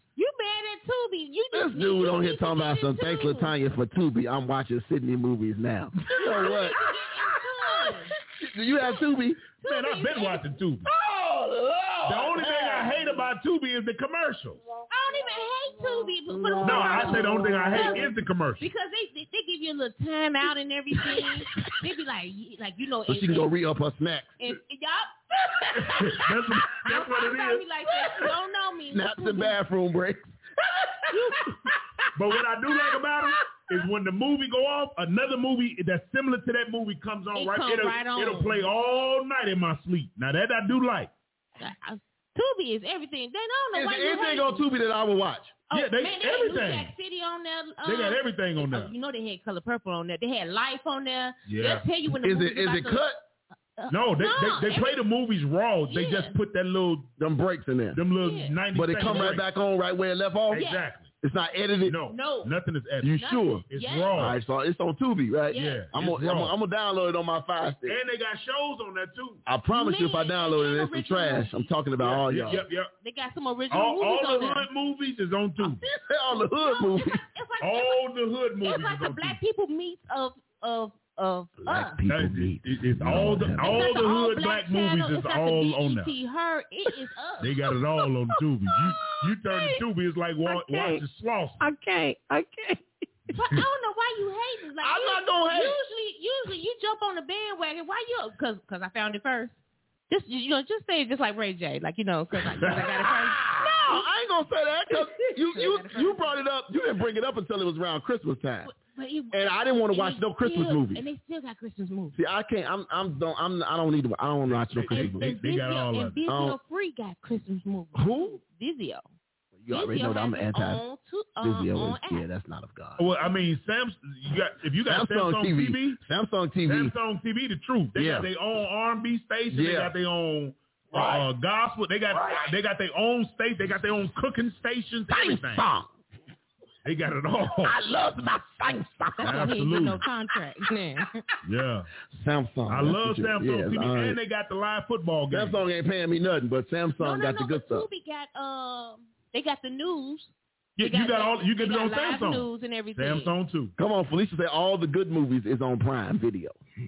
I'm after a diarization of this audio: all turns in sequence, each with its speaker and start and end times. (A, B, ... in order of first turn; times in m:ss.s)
0:00.2-0:03.5 A
0:01.5-0:09.4 B
0:06.1-0:06.6 C
0:06.2-0:08.1 A
0:09.6-0:10.4 A
0:09.6-0:10.9 C
0:10.8-0:13.2 B
0:12.1-0:14.6 C
0:14.9-0:23.5 A
0:16.3-0:18.0 B
0:16.6-0:18.7 C
0:23.1-0:24.4 B
0:24.4-0:29.6 A
0:25.7-0:28.3 C
0:28.9-0:31.0 B
0:31.1-0:31.5 A
0:32.1-0:41.1 C
0:37.3-0:38.6 A
0:41.6-0:44.6 A
0:43.7-0:45.6 B
0:45.7-0:53.0 A
0:45.7-0:46.9 C
0:47.8-0:48.9 C
0:51.4-0:51.9 C
0:52.2-0:53.2 B
0:53.8-0:55.0 A
0:53.9-0:57.1 C
0:55.9-0:56.4 A
0:57.2-0:58.0 B
0:57.9-0:59.4 C
0:58.1-0:58.6 A
0:58.7-1:00.6 B
1:00.5-1:01.1 C
1:00.6-1:00.8 A
1:01.2-1:02.0 B
1:01.9-1:04.4 C
1:02.1-1:02.5 A
1:03.0-1:08.0 B
1:03.2-1:04.2 A
1:05.5-1:05.9 A
1:05.5-1:06.5 C
1:07.8-1:09.4 C
1:09.4-1:12.6 B
1:09.7-1:11.7 A
1:12.0-1:12.9 C
1:12.4-1:14.7 A
1:13.7-1:15.8 C
1:15.6-1:18.0 A
1:16.0-1:17.2 B
1:17.6-1:19.4 C
1:18.6-1:22.0 A
1:21.6-1:24.0 B
1:22.1-1:26.1 C
1:23.5-1:27.6 A
1:27.4-1:31.6 C
1:30.5-1:31.0 A
1:31.6-1:32.2 A
1:33.3-1:33.6 C
1:33.3-1:39.6 A
1:34.8-1:35.8 B
1:40.1-1:44.1 A
1:42.6-1:42.9 C
1:42.6-1:48.7 B
1:44.9-1:46.4 A
1:48.6-1:52.2 A
1:49.3-1:51.1 B
1:52.1-1:55.3 B
1:54.4-1:56.2 C
1:54.9-1:59.0 A
1:56.3-1:56.6 B
1:57.9-1:58.4 B
1:59.6-2:00.8 B
1:59.7-2:02.3 A
2:01.4-2:03.0 B
2:03.0-2:06.0 C
2:04.8-2:06.9 B
2:06.6-2:15.7 C
2:07.9-2:08.3 B
2:09.5-2:09.9 B
2:10.9-2:11.3 B
2:12.1-2:12.5 B
2:15.1-2:15.9 B
2:16.8-2:17.8 C
2:17.5-2:19.5 B
2:19.2-2:21.2 A
2:19.2-2:20.1 C
2:21.4-2:21.9 C
2:22.1-2:24.2 B
2:22.7-2:25.6 C
2:25.3-2:27.9 B
2:27.0-2:33.3 A
2:30.8-2:33.7 C
2:33.8-2:36.6 B